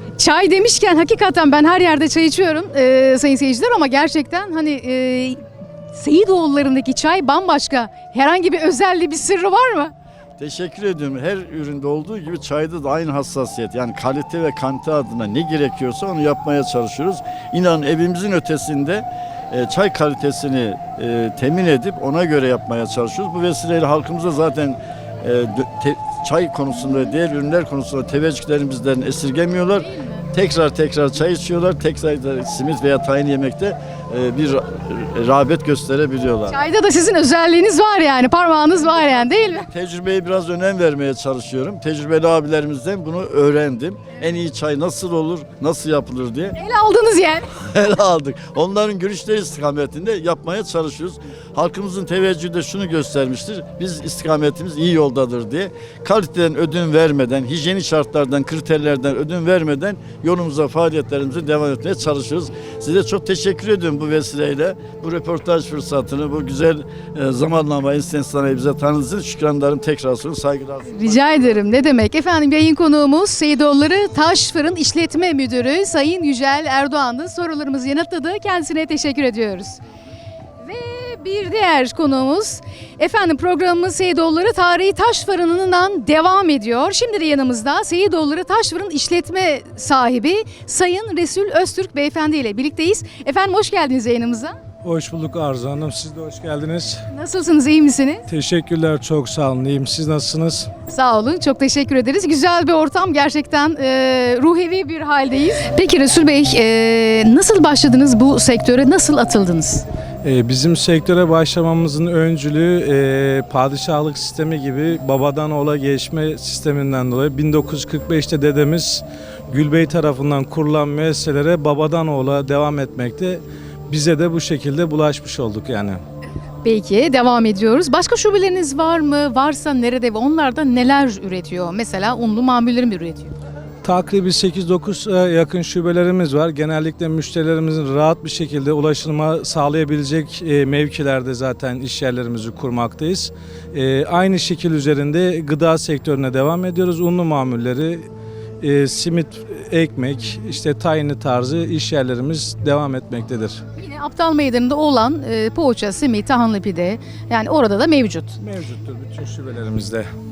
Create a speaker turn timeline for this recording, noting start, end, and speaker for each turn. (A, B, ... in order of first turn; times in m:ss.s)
0:00.2-0:05.4 A
0:05.9-0:09.9 A
0:10.4-0:36.6 B
0:29.8-0:30.2 A
0:36.5-0:39.7 A
0:38.8-0:46.6 B
0:46.6-0:47.5 A
0:47.6-1:11.9 B
1:10.9-1:19.8 A
1:20.6-1:34.6 A
1:34.8-1:37.0 C
1:37.1-1:38.2 A
1:38.3-1:40.7 C
1:40.9-1:49.8 A
1:50.2-2:06.0 C
2:06.6-2:13.3 A
2:13.8-2:28.1 C
2:28.6-2:33.6 C
2:33.8-2:38.4 A
2:38.4-2:40.1 C